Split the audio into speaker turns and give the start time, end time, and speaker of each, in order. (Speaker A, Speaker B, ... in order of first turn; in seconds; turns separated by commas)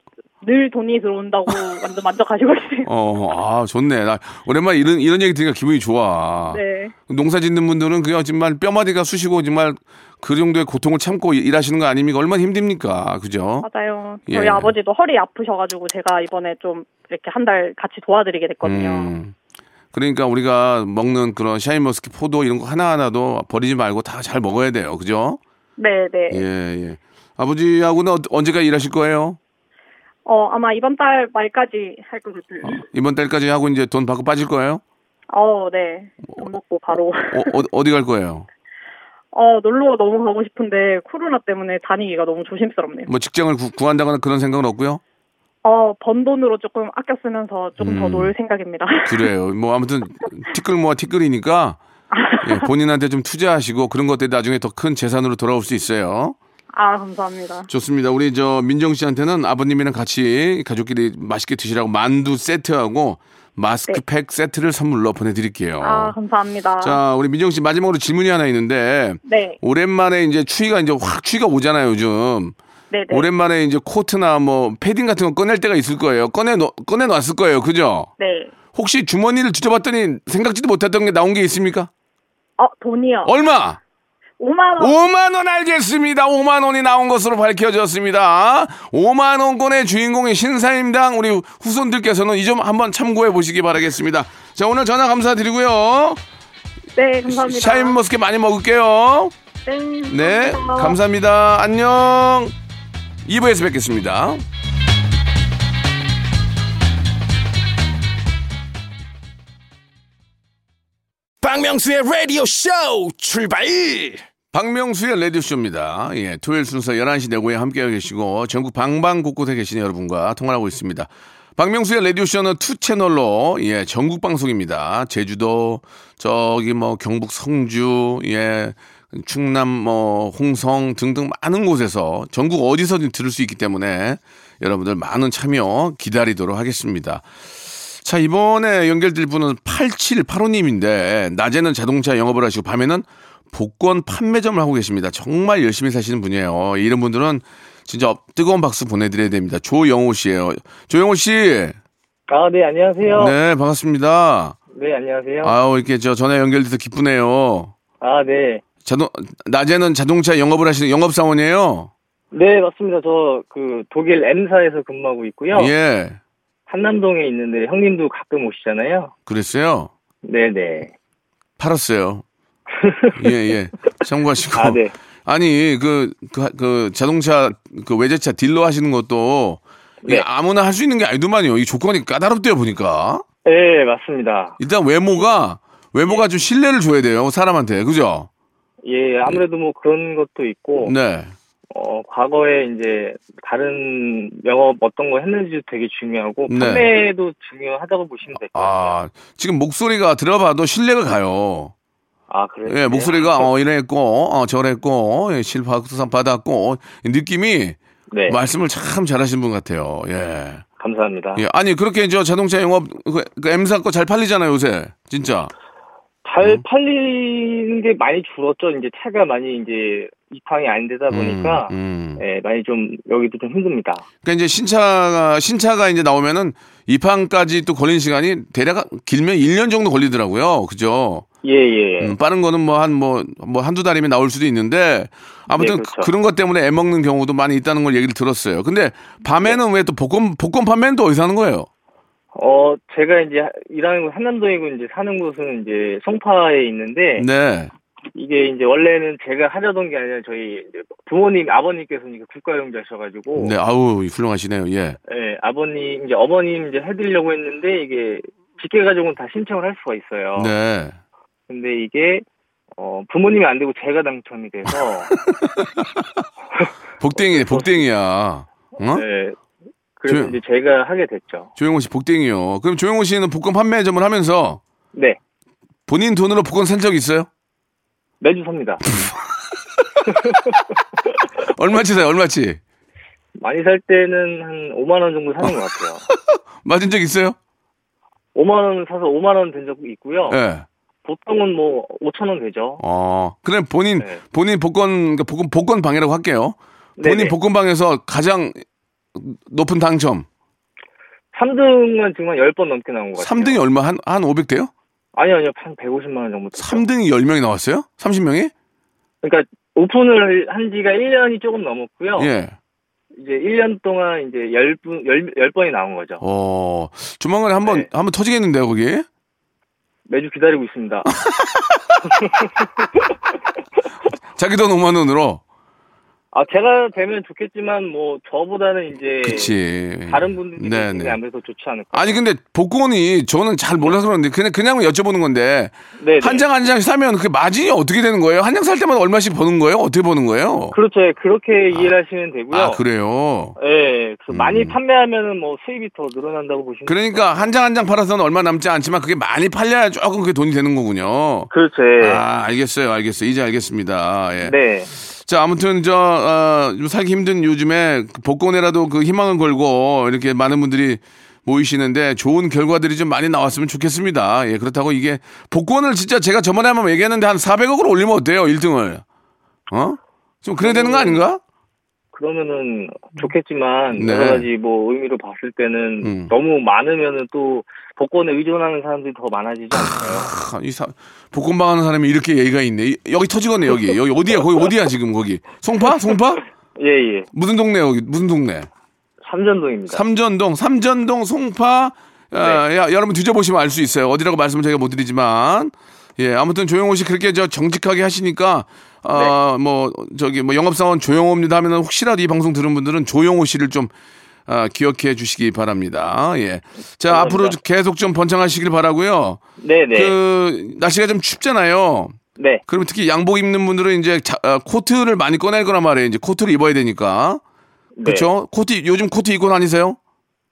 Speaker A: 0.4-2.9, Speaker B: 2.8-13.7, Speaker A: 6.5-6.9, Speaker A: 13.6-19.1, Speaker B: 14.3-14.7, Speaker B: 18.6-19.4, Speaker B: 19.9-25.4, Speaker A: 25.8-26.4, Speaker B: 26.3-29.4, Speaker A: 30.2-32.8, Speaker B: 32.6-34.8, Speaker A: 35.3-37.6, Speaker B: 37.3-38.5, Speaker A: 39.3-43.1, Speaker B: 43.1-45.0, Speaker A: 45.6-49.3, Speaker B: 47.8-48.3, Speaker B: 49.0-51.8, Speaker A: 52.1-52.7, Speaker B: 52.4-56.4, Speaker A: 56.7-57.7, Speaker B: 57.7-66.1, Speaker A: 65.8-67.0, Speaker B: 66.8-72.5, Speaker A: 69.2-69.6, Speaker A: 72.9-73.3, Speaker B: 73.1-78.1, Speaker A: 78.2-78.5, Speaker B: 78.7-81.9, Speaker A: 82.6-83.3, Speaker B: 83.2-83.8, Speaker A: 84.4-85.0, Speaker B: 84.8-96.2, Speaker A: 97.0-98.0, Speaker B: 97.3-99.3, Speaker A: 99.7-101.0, Speaker B: 100.1-102.5, Speaker B: 103.2-104.4, Speaker C: 111.4-114.2, Speaker B: 114.5-137.2, Speaker B: 138.0-151.8, Speaker D: 152.3-153.3, Speaker B: 153.0-154.6, Speaker D: 154.7-155.6, Speaker B: 155.4-157.7, Speaker D: 158.0-158.6, Speaker B: 158.8-161.9, Speaker D: 162.3-165.7, Speaker B: 165.5-166.2, Speaker D: 166.7-169.1, Speaker B: 169.3-169.9, Speaker D: 170.2-170.9, Speaker B: 171.6-172.2, Speaker D: 172.8-173.3, Speaker B: 173.2-183.2, Speaker D: 174.5-174.9, Speaker D: 183.4-184.6, Speaker B: 184.6-188.3, Speaker D: 188.8-190.9, Speaker B: 190.8-191.3, Speaker D: 191.7-199.0, Speaker B: 196.5-196.9, Speaker B: 198.5-201.7, Speaker D: 202.3-203.5, Speaker B: 202.7-210.6, Speaker D: 208.1-208.4, Speaker D: 210.8-211.4, Speaker B: 211.3-215.5, Speaker D: 216.2-224.0, Speaker B: 221.1-222.2, Speaker B: 224.2-231.2, Speaker D: 231.4-232.2, Speaker B: 232.0-241.7, Speaker D: 235.6-236.1, Speaker D: 242.3-247.2, Speaker B: 247.2-247.7, Speaker D: 248.1-253.5, Speaker B: 253.3-255.0, Speaker D: 255.1-260.5, Speaker B: 260.3-261.0, Speaker D: 261.5-262.2, Speaker D: 262.8-265.2, Speaker B: 265.3-266.2, Speaker D: 266.5-267.7, Speaker B: 267.0-269.0, Speaker D: 268.9-269.4, Speaker D: 270.0-271.5, Speaker B: 270.1-270.4, Speaker B: 271.6-274.6, Speaker B: 275.9-277.3, Speaker D: 278.2-278.9, Speaker D: 280.1-280.6, Speaker B: 281.4-282.6, Speaker D: 283.4-286.1, Speaker B: 286.1-287.4, Speaker D: 288.3-290.4, Speaker B: 290.3-290.7, Speaker D: 291.0-292.8, Speaker B: 292.8-298.6, Speaker D: 297.0-297.3, Speaker B: 299.1-300.3, Speaker D: 301.3-303.6, Speaker B: 303.2-304.7, Speaker D: 305.1-306.8, Speaker B: 306.6-308.5, Speaker D: 309.2-312.3, Speaker B: 312.1-312.6, Speaker D: 313.1-316.2, Speaker B: 316.2-319.1, Speaker D: 320.1-321.1, Speaker B: 321.2-322.0, Speaker D: 322.1-322.7, Speaker B: 324.3-325.4, Speaker D: 326.3-329.5, Speaker B: 329.2-331.2, Speaker D: 330.1-332.2, Speaker B: 331.9-340.8, Speaker D: 336.0-336.4, Speaker D: 340.7-342.8, Speaker B: 342.5-343.6, Speaker D: 343.6-347.5, Speaker B: 344.3-344.8, Speaker B: 346.9-354.5, Speaker D: 351.5-352.2, Speaker D: 354.4-354.9, Speaker B: 355.1-369.0, Speaker B: 369.7-371.4, Speaker D: 370.6-371.2, Speaker D: 372.1-380.3, Speaker B: 373.9-374.5, Speaker B: 376.0-376.3, Speaker B: 379.7-386.4, Speaker D: 386.8-387.3, Speaker B: 387.3-388.7, Speaker D: 389.2-390.0, Speaker B: 389.9-403.9, Speaker B: 404.5-409.4, Speaker D: 407.1-407.6, Speaker D: 409.6-410.1, Speaker B: 409.9-417.4, Speaker D: 412.4-412.6, Speaker D: 418.0-418.3, Speaker B: 418.0-420.0